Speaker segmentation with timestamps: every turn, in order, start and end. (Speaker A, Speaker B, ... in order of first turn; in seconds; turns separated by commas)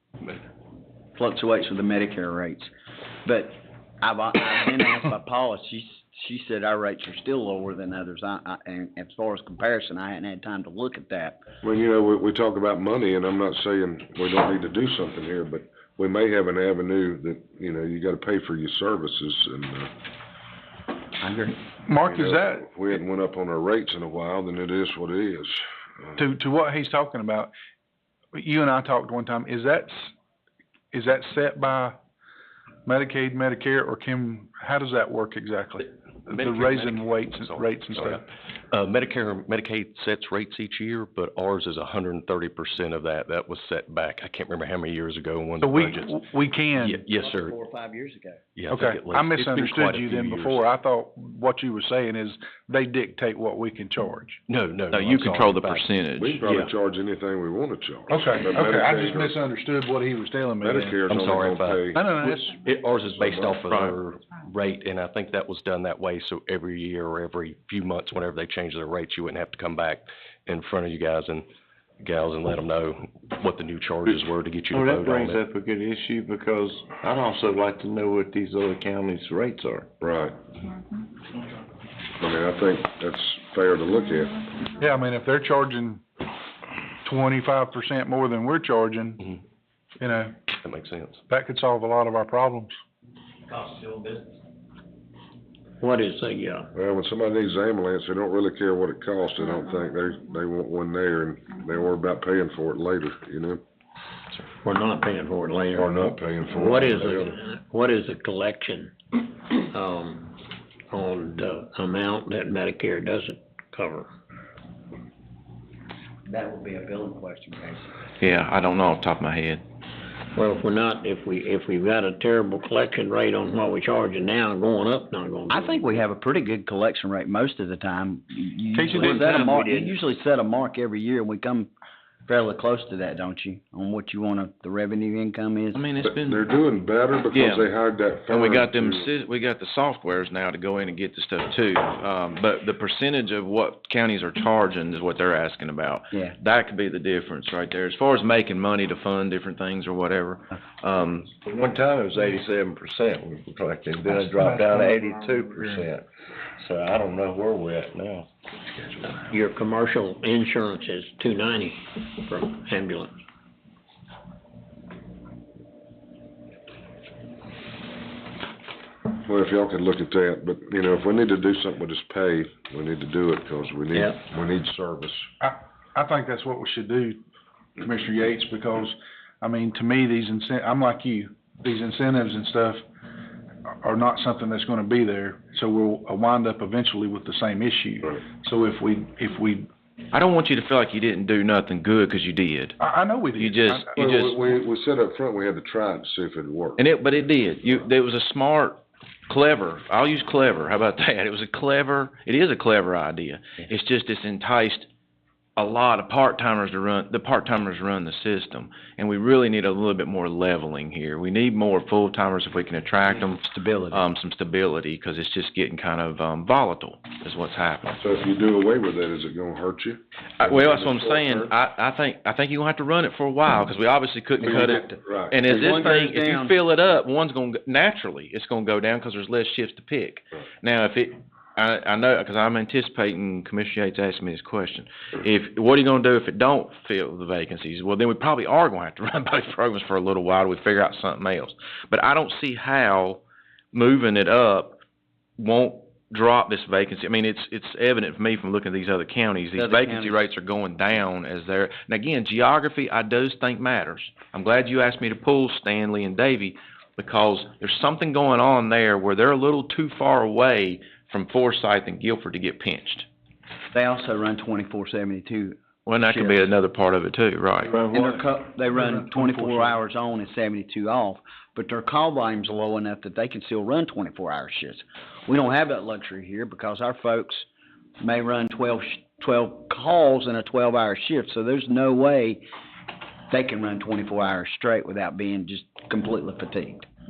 Speaker A: 0.2-0.5, Speaker B: 1.1-2.7, Speaker B: 3.2-11.4, Speaker C: 11.6-19.9, Speaker B: 21.2-21.6, Speaker D: 21.9-22.7, Speaker C: 22.1-26.2, Speaker D: 26.2-27.5, Speaker D: 28.3-30.1, Speaker D: 30.9-32.0, Speaker D: 32.9-38.2, Speaker A: 36.3-46.2, Speaker D: 45.6-47.0, Speaker A: 46.8-47.6, Speaker B: 47.0-48.4, Speaker A: 48.5-50.6, Speaker D: 48.7-54.4, Speaker A: 54.5-55.8, Speaker E: 54.9-56.4, Speaker C: 56.2-59.4, Speaker A: 56.4-56.7, Speaker D: 58.1-61.0, Speaker C: 60.6-62.0, Speaker A: 61.1-71.5, Speaker D: 61.9-62.6, Speaker C: 63.2-63.6, Speaker E: 63.7-63.9, Speaker A: 72.0-75.4, Speaker F: 74.7-79.9, Speaker C: 80.0-80.4, Speaker C: 82.2-84.4, Speaker D: 84.8-86.0, Speaker D: 87.0-89.3, Speaker D: 90.0-90.4, Speaker A: 90.6-91.2, Speaker D: 91.3-92.7, Speaker G: 95.8-96.7, Speaker C: 96.7-103.6, Speaker G: 104.6-105.9, Speaker C: 105.7-107.3, Speaker G: 106.5-110.4, Speaker G: 110.9-114.1, Speaker B: 116.2-117.9, Speaker E: 118.2-119.6, Speaker G: 120.3-126.0, Speaker B: 125.5-131.7, Speaker D: 128.7-129.6, Speaker G: 129.0-129.9, Speaker B: 132.3-135.8, Speaker E: 135.7-136.5, Speaker C: 136.0-139.1, Speaker E: 137.3-137.7, Speaker E: 138.3-151.3, Speaker F: 151.4-156.1, Speaker D: 154.4-155.1, Speaker F: 156.6-159.3, Speaker G: 159.3-163.2, Speaker C: 169.2-175.3, Speaker D: 175.4-177.2, Speaker D: 177.8-182.8, Speaker D: 183.8-189.7, Speaker E: 190.1-192.8, Speaker D: 192.8-193.9, Speaker E: 193.4-194.3, Speaker C: 194.0-196.8, Speaker E: 196.8-204.9, Speaker E: 205.6-218.0, Speaker B: 213.1-214.0, Speaker C: 218.0-221.5, Speaker E: 220.4-244.8, Speaker B: 224.4-226.5, Speaker C: 224.4-225.4, Speaker E: 245.4-263.1, Speaker B: 249.5-250.2, Speaker B: 263.7-266.4, Speaker E: 265.9-267.9, Speaker B: 267.9-277.5, Speaker D: 268.7-269.8, Speaker B: 278.0-282.4, Speaker B: 283.3-286.9